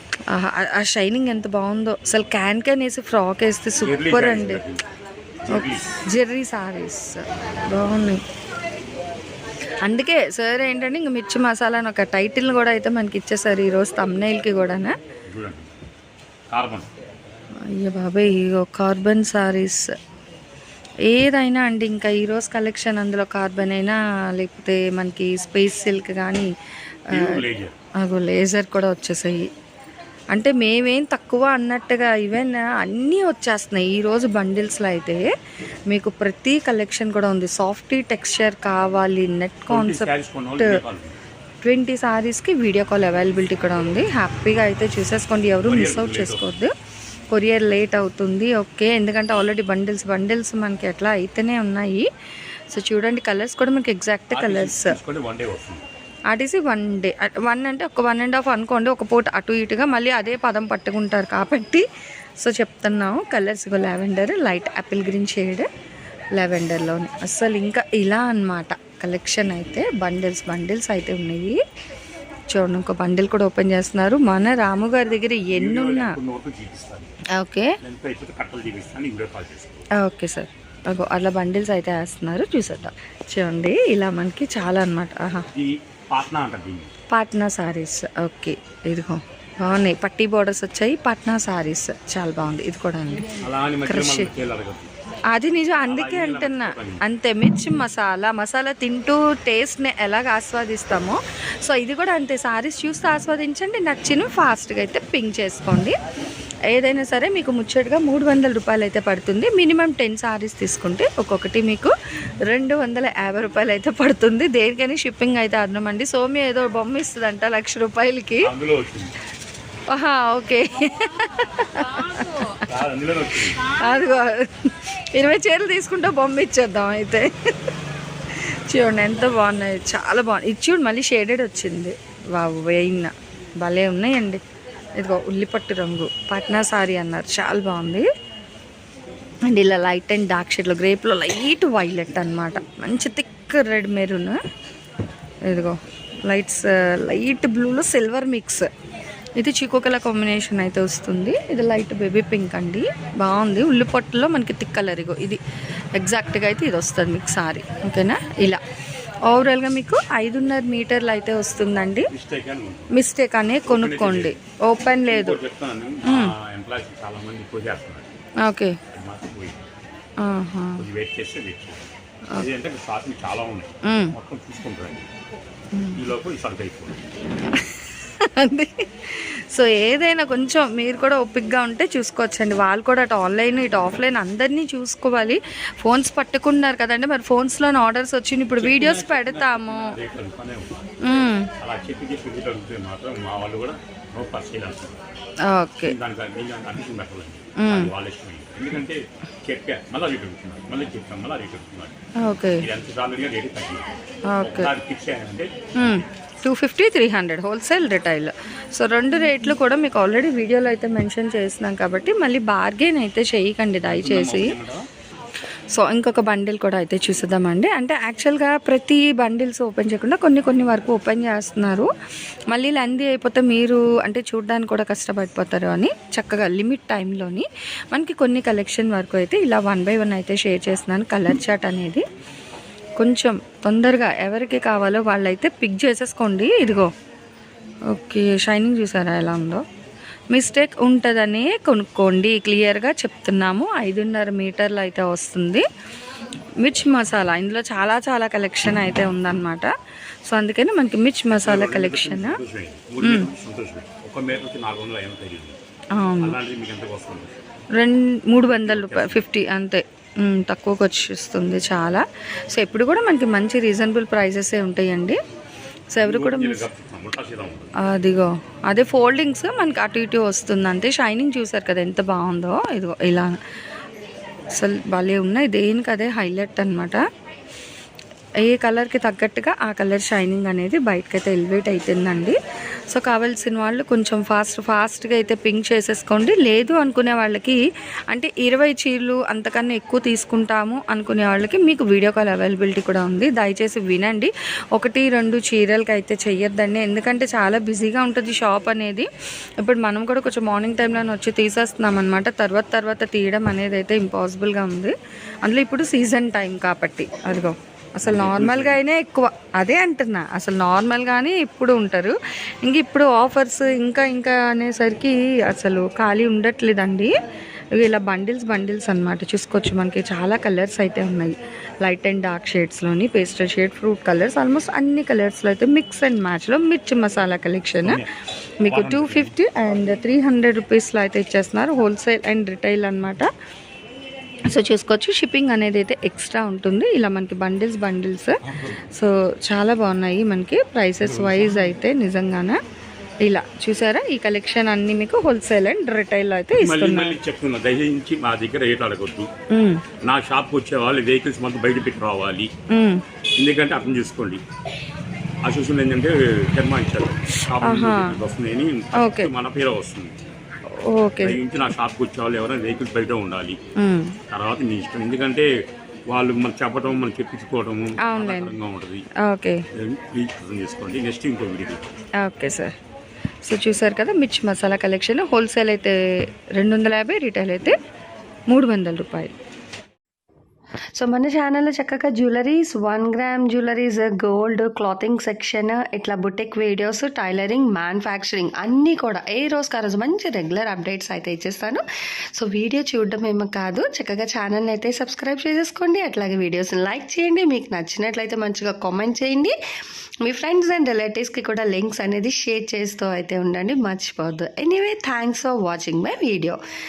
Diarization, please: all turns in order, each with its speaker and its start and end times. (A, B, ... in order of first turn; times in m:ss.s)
0:00.3-0:04.6 A
0:03.8-0:04.8 B
0:05.4-0:05.9 B
0:05.5-0:08.2 A
0:09.8-0:15.0 A
0:15.3-0:15.7 B
0:16.5-0:16.9 B
0:17.6-0:19.9 A
0:21.1-0:26.5 A
0:27.1-0:27.7 B
0:27.1-0:27.4 A
0:28.0-0:29.5 A
0:30.3-0:35.3 A
0:35.9-0:40.0 A
0:39.7-0:41.2 B
0:41.6-0:46.7 A
0:45.6-0:46.5 B
0:47.3-0:52.1 A
0:52.7-0:55.0 A
0:54.3-0:55.8 B
0:56.3-1:01.8 A
1:02.4-1:05.7 A
1:06.4-1:11.6 A
1:12.5-1:16.2 A
1:15.5-1:17.2 B
1:17.4-1:17.8 A
1:17.8-1:19.8 B
1:20.0-1:25.5 A
1:25.5-1:26.9 B
1:27.1-1:33.2 A
1:33.4-1:34.9 B
1:33.9-1:34.3 A
1:35.3-1:46.0 A
1:35.8-1:37.0 B
1:46.7-1:51.9 A
1:52.5-1:58.5 A
1:58.4-1:59.1 B
1:59.9-2:02.5 A
2:02.5-2:03.8 B
2:03.8-2:07.7 A
2:08.3-2:14.4 A
2:15.0-2:18.1 A
2:19.5-2:24.4 A
2:25.5-2:28.7 A
2:29.4-2:35.4 A
2:36.0-2:38.6 A
2:39.3-2:42.1 A
2:42.1-2:43.0 B
2:42.9-2:45.4 A
2:43.6-2:44.4 B
2:45.0-2:48.1 B
2:46.0-2:46.3 A
2:48.4-2:48.8 A
2:48.9-2:49.6 B
2:50.2-2:50.8 A
2:50.8-2:55.1 B
2:53.9-2:54.1 A
2:55.7-2:56.0 A
2:56.0-2:57.0 B
2:57.4-3:10.0 A
3:08.6-3:10.9 B
3:11.0-3:11.5 A
3:11.6-3:15.0 B
3:15.5-3:15.9 A
3:15.8-3:21.9 B
3:17.6-3:17.9 A
3:22.2-3:22.7 A
3:22.6-3:23.9 B
3:24.3-3:24.7 A
3:24.4-3:26.0 B
3:25.8-3:34.6 A
3:33.8-3:34.9 B
3:35.7-3:41.9 A
3:42.5-3:52.0 A
3:53.0-3:56.9 A
3:57.9-3:59.6 A
4:00.3-4:05.7 A
4:06.6-4:09.7 A
4:10.2-4:12.4 A
4:11.3-4:15.6 B
4:13.0-4:13.3 A
4:16.0-4:16.3 A
4:16.2-4:17.3 B
4:17.8-4:25.2 A
4:18.4-4:19.3 B
4:25.9-4:26.6 A
4:26.0-4:27.7 B
4:27.8-4:33.4 A
4:34.5-4:37.0 A
4:38.4-4:42.4 A
4:42.9-4:59.1 A
4:59.6-5:17.1 A
5:08.0-5:08.8 B
5:17.8-5:28.0 A
5:27.8-5:29.4 B
5:28.6-5:33.3 A
5:34.5-5:38.4 A
5:38.4-5:38.8 B
5:38.9-5:42.6 A
5:41.0-5:41.8 B
5:43.2-5:47.2 A
5:46.5-5:49.3 B
5:49.5-5:49.8 A
5:50.0-5:52.5 B
5:52.7-5:53.0 A
5:53.4-5:54.4 B
5:55.4-6:00.2 B
5:57.6-5:58.2 A
5:59.0-5:59.3 A
6:00.7-6:01.4 A
6:01.2-6:03.6 B
6:03.8-6:04.2 A
6:04.3-6:05.5 B
6:06.1-6:09.0 B
6:08.0-6:08.5 A
6:09.2-6:09.6 A
6:09.7-6:11.9 B
6:12.2-6:12.8 A
6:13.4-6:17.8 A
6:18.5-6:19.3 A
6:20.9-6:31.8 C
6:32.4-6:39.5 C
6:40.2-6:46.6 C